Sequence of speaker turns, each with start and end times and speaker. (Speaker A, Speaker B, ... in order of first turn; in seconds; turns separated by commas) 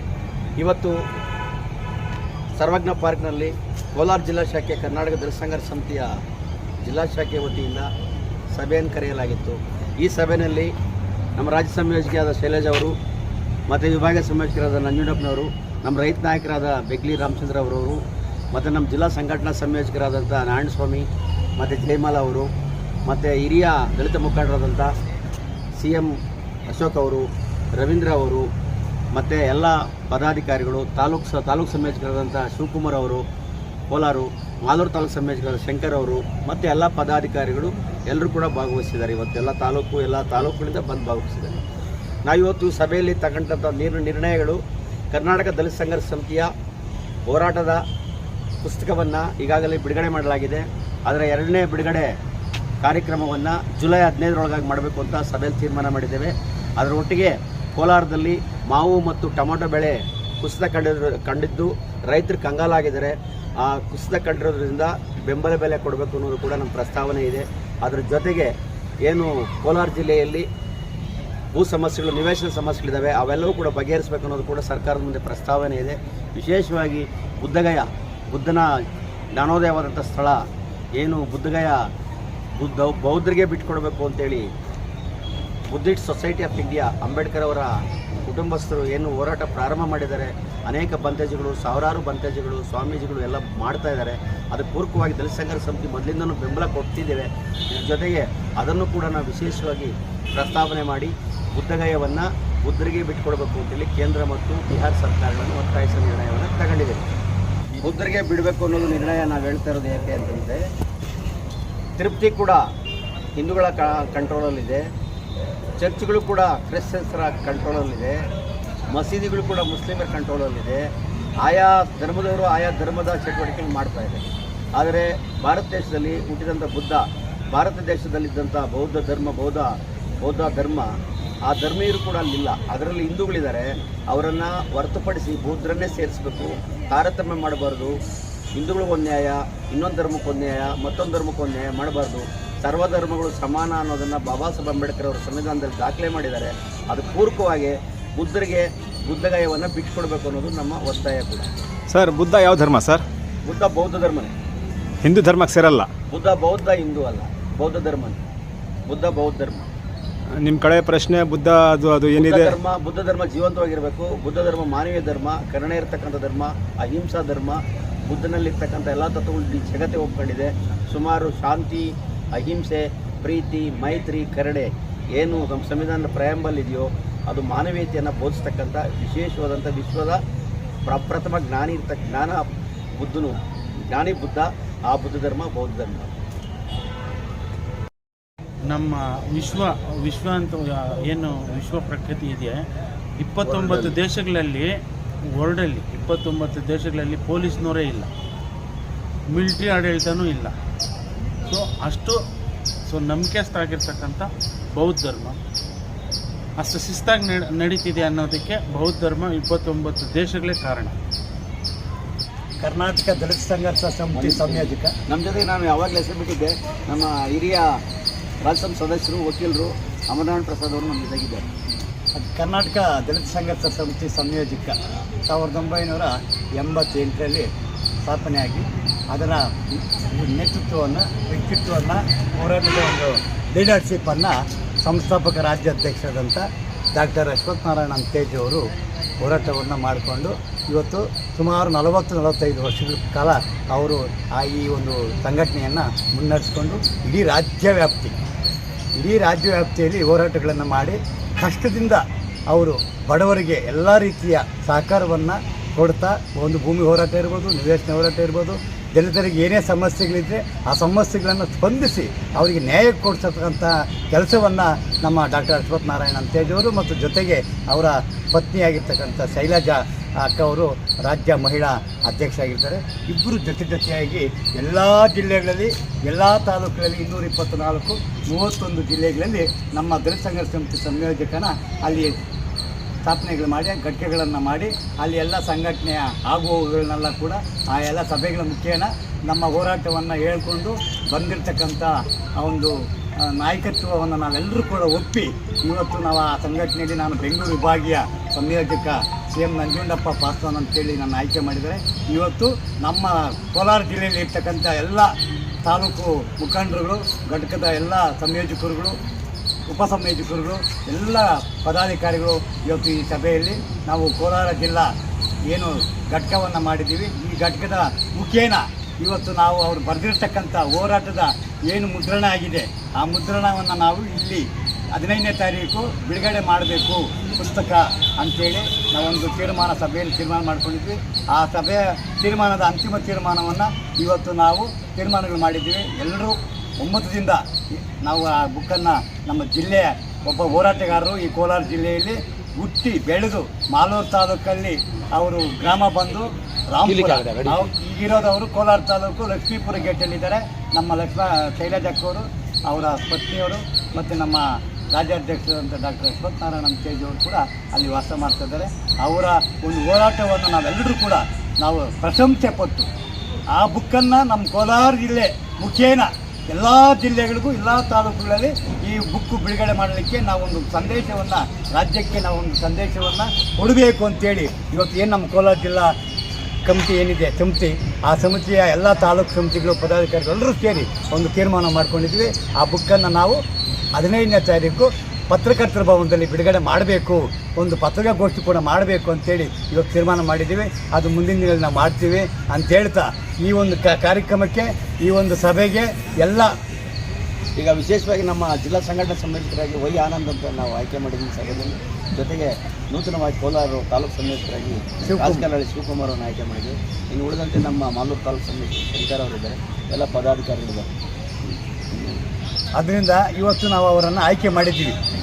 Speaker A: 0.6-1.0, Speaker A: 2.5-6.2, Speaker A: 6.8-7.9, Speaker A: 8.5-10.7, Speaker A: 11.3-12.9, Speaker A: 13.7-22.5, Speaker A: 23.1-24.9, Speaker A: 25.8-28.5, Speaker A: 29.1-33.2, Speaker A: 33.9-41.6, Speaker A: 42.2-44.6, Speaker A: 45.1-46.5, Speaker A: 47.2-47.8, Speaker A: 48.6-52.1, Speaker A: 52.8-68.5, Speaker A: 69.0-70.5, Speaker A: 71.5-78.7, Speaker A: 79.3-80.4, Speaker A: 81.0-81.8, Speaker A: 82.5-84.5, Speaker A: 85.7-107.0, Speaker A: 107.8-110.6, Speaker A: 112.0-112.7, Speaker A: 113.3-114.8, Speaker A: 115.8-118.2, Speaker A: 118.9-120.8, Speaker A: 121.4-124.2, Speaker A: 124.8-130.9, Speaker A: 131.4-138.0, Speaker A: 138.5-151.5, Speaker B: 151.9-153.0, Speaker A: 153.4-154.3, Speaker B: 155.0-155.9, Speaker A: 156.1-158.2, Speaker A: 158.8-159.7, Speaker B: 160.3-162.6, Speaker A: 162.1-180.2, Speaker A: 180.8-186.1, Speaker C: 188.7-192.6, Speaker C: 193.2-194.7, Speaker A: 193.4-194.0, Speaker C: 195.3-198.1, Speaker C: 199.3-200.5, Speaker C: 201.4-202.2, Speaker C: 202.9-205.4, Speaker C: 206.6-210.9, Speaker D: 212.6-214.9, Speaker A: 214.1-217.8, Speaker A: 218.4-221.4, Speaker D: 222.2-227.5, Speaker D: 228.0-238.7, Speaker D: 239.2-248.1, Speaker D: 249.0-282.1, Speaker D: 283.0-305.1, Speaker D: 305.6-308.9, Speaker D: 309.7-314.9, Speaker D: 315.5-337.4, Speaker D: 338.0-362.9, Speaker B: 346.9-347.4, Speaker D: 363.5-375.9, Speaker D: 376.6-383.4, Speaker D: 383.9-396.5, Speaker A: 397.6-410.9, Speaker D: 405.0-405.4, Speaker D: 412.8-414.9